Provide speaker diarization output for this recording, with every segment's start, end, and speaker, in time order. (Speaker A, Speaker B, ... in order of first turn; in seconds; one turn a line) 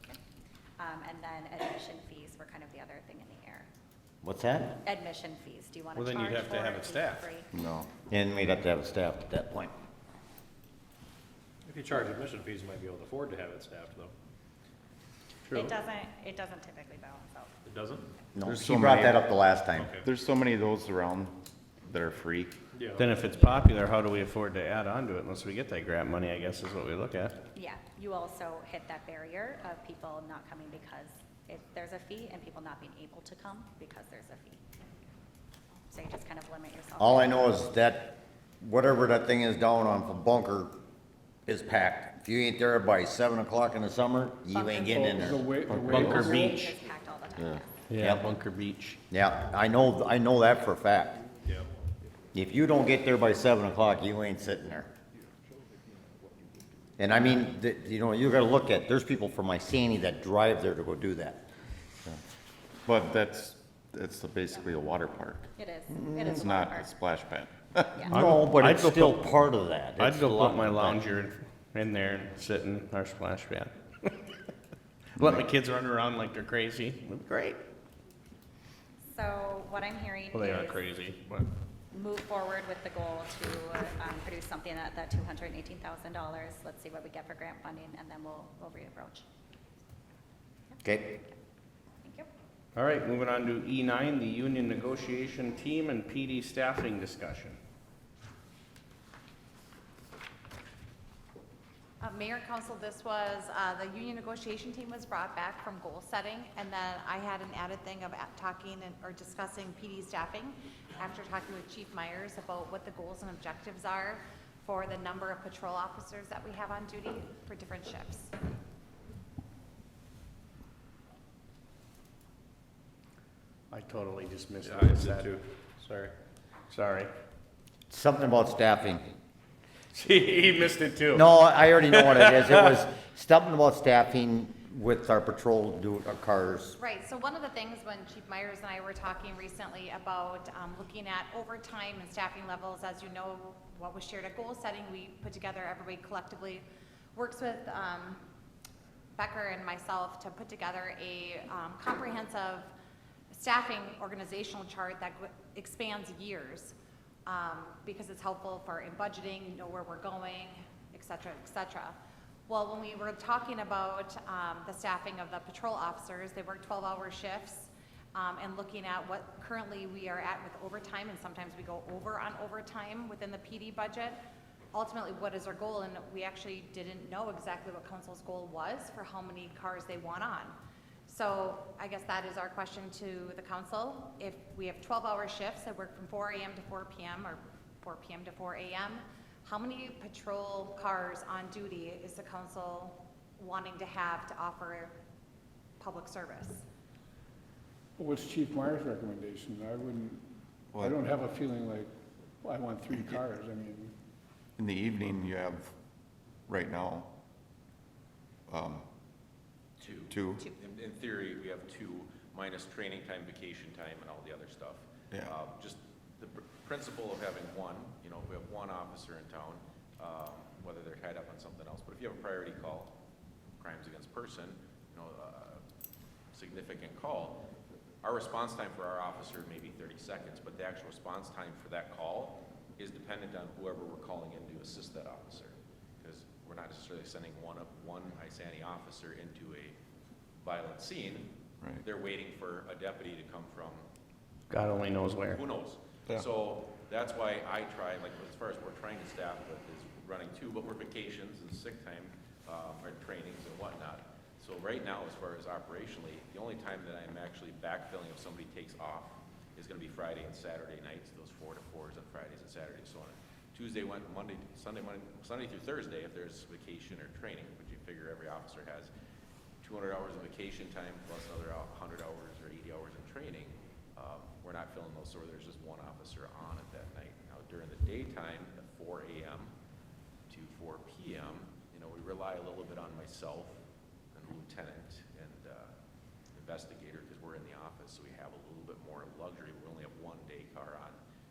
Speaker A: 0.8-3.7
Speaker B: 4.2-4.8
Speaker A: 4.8-7.5
Speaker C: 5.9-7.3
Speaker D: 7.5-7.9
Speaker B: 8.1-9.7
Speaker E: 11.6-14.1
Speaker E: 15.5-15.7
Speaker A: 15.5-17.5
Speaker E: 17.6-18.1
Speaker B: 18.3-19.9
Speaker D: 18.4-19.2
Speaker E: 19.8-20.1
Speaker D: 20.0-22.5
Speaker E: 22.7-23.1
Speaker C: 22.9-27.3
Speaker A: 23.2-23.7
Speaker A: 27.5-34.6
Speaker A: 35.9-37.5
Speaker B: 37.0-40.7
Speaker B: 41.5-45.4
Speaker A: 44.5-45.4
Speaker F: 45.0-46.7
Speaker D: 45.7-46.2
Speaker C: 45.8-46.6
Speaker A: 46.1-47.8
Speaker C: 47.9-49.0
Speaker B: 48.0-48.2
Speaker B: 49.1-51.2
Speaker B: 52.3-54.9
Speaker B: 57.0-61.5
Speaker D: 62.8-68.1
Speaker A: 65.5-66.9
Speaker B: 66.1-66.4
Speaker C: 68.1-69.3
Speaker B: 68.1-71.0
Speaker C: 70.0-74.3
Speaker C: 75.2-77.6
Speaker D: 75.2-75.4
Speaker A: 79.1-80.8
Speaker C: 80.3-81.5
Speaker A: 81.9-89.2
Speaker A: 90.7-91.3
Speaker B: 90.8-91.2
Speaker A: 92.0-92.3
Speaker C: 92.7-97.6
Speaker G: 102.0-118.3
Speaker C: 123.7-125.4
Speaker E: 124.6-126.1
Speaker C: 126.7-127.1
Speaker B: 127.9-129.1
Speaker C: 129.9-131.3
Speaker B: 131.1-136.8
Speaker C: 131.9-132.7
Speaker G: 136.8-148.2
Speaker G: 149.1-152.7
Speaker G: 153.3-156.7
Speaker G: 157.2-161.9
Speaker G: 162.5-174.2
Speaker G: 174.7-194.9
Speaker G: 195.8-196.6
Speaker F: 198.0-200.3
Speaker D: 200.7-201.1
Speaker F: 200.8-203.9
Speaker D: 204.6-205.7
Speaker D: 206.5-207.1
Speaker D: 208.5-208.8
Speaker H: 209.8-222.9
Speaker D: 210.1-210.4
Speaker H: 223.6-225.6
Speaker H: 226.3-227.4
Speaker H: 228.0-239.8
Speaker H: 240.4-241.3
Speaker H: 241.8-243.8
Speaker C: 244.5-245.4
Speaker H: 245.3-268.9
Speaker H: 269.6-279.5
Speaker H: 280.3-283.6
Speaker H: 284.1-285.7
Speaker H: 286.3-291.0